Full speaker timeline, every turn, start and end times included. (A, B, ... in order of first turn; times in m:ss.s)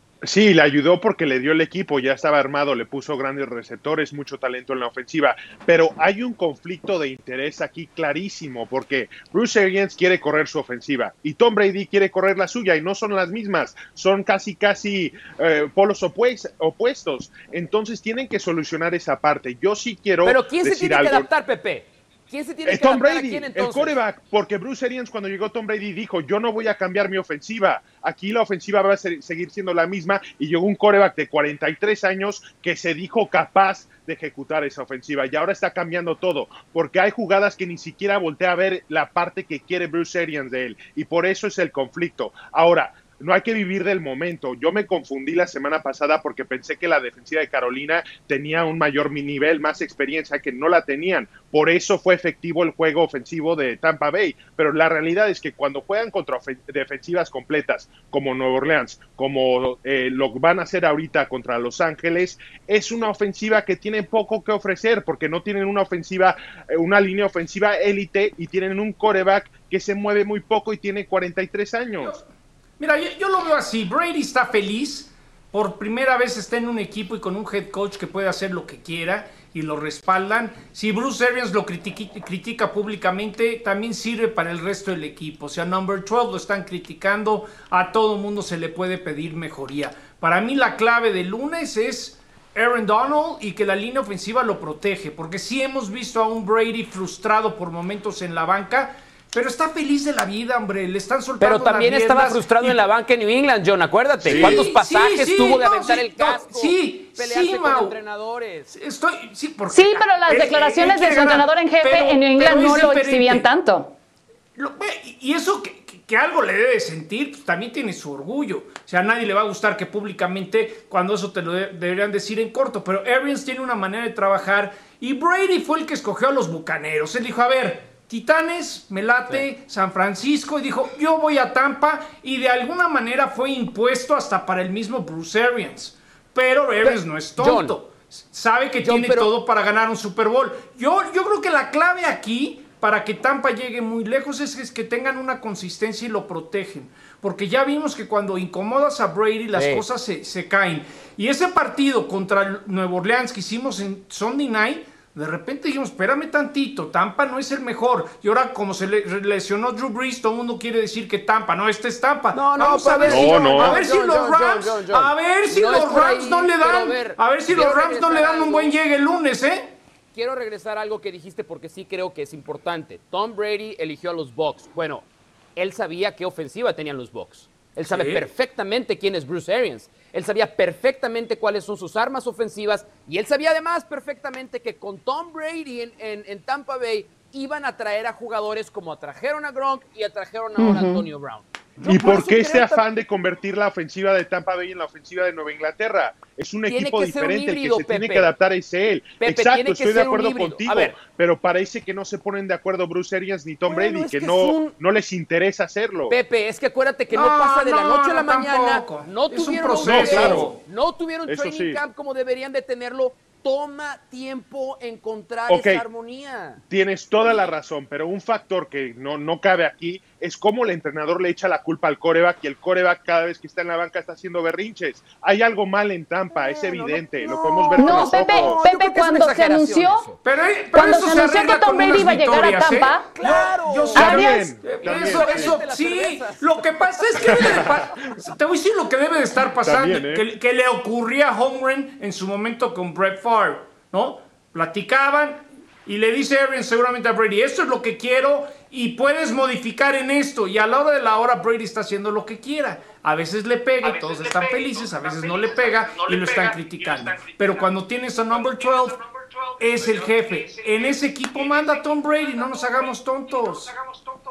0:00.2-0:21.3 A
0:20.2-0:24.0 B
0:22.7-1:12.2 A
1:12.8-1:42.8 C
1:41.4-1:48.7 B
1:44.2-1:48.0 C
1:48.7-1:53.5 C
1:49.7-1:53.9 D
1:54.6-2:49.7 C
2:16.8-2:17.8 B
2:18.8-2:19.3 B
2:29.6-2:29.8 B
2:42.3-2:48.8 B
2:43.1-2:43.8 A
2:50.1-3:12.8 B
2:57.8-2:58.3 C
3:10.6-3:11.0 D
3:11.8-3:26.2 A
3:16.7-3:18.3 B
3:19.2-3:21.0 B
3:23.7-3:24.7 B
3:26.1-3:36.6 B
3:27.1-3:30.6 C
3:29.8-3:30.5 A
3:31.3-3:31.8 A
3:35.5-3:35.8 A
3:36.7-3:48.6 A
3:46.3-3:50.2 B
3:47.8-3:50.0 D
3:50.2-4:19.0 C
3:50.7-3:53.1 D
3:53.2-3:57.7 B
3:53.9-3:55.6 A
3:59.6-4:00.2 A
4:19.6-4:23.8 C